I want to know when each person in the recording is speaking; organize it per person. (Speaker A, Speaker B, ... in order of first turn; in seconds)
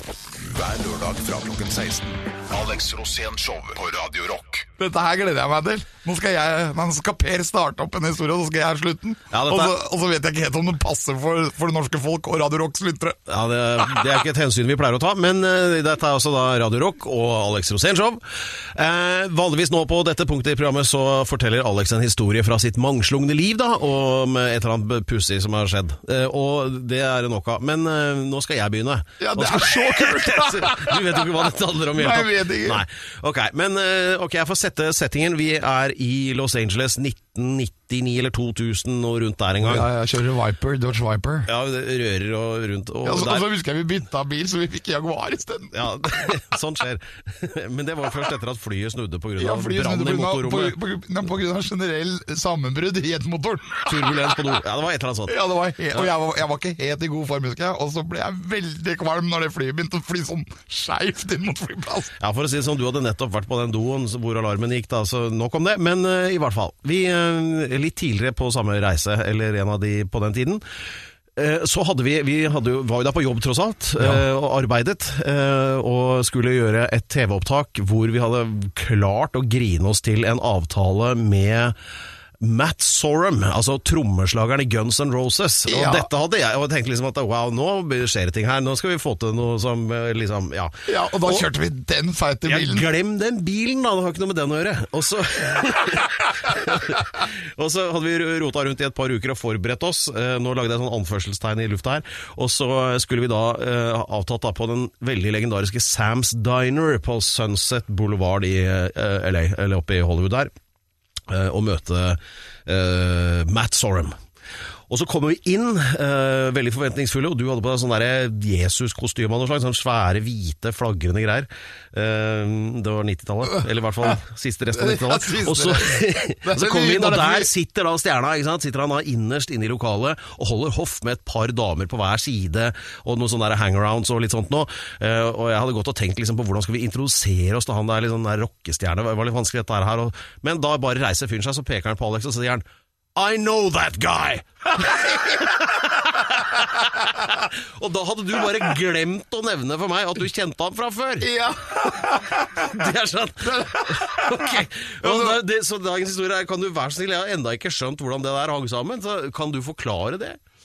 Speaker A: 0.4-4.7
Speaker B: 4.8-13.2, 29.2-31.2, 31.9-32.8, 39.6-41.5, 43.0-45.9, 49.4-54.2, 55.3-62.1, 74.0-74.2, 85.7-86.1, 90.9-92.9, 124.7-127.5, 151.2-152.8, 153.4-155.4
Speaker C: 9.3-9.8, 13.3-18.2, 18.7-39.9, 41.5-43.4, 45.7-50.8, 53.9-55.4, 62.2-70.6, 71.3-81.7, 82.4-91.5, 92.4-110.5, 111.3-114.1, 114.9-142.6, 143.2-151.3, 152.6-160.4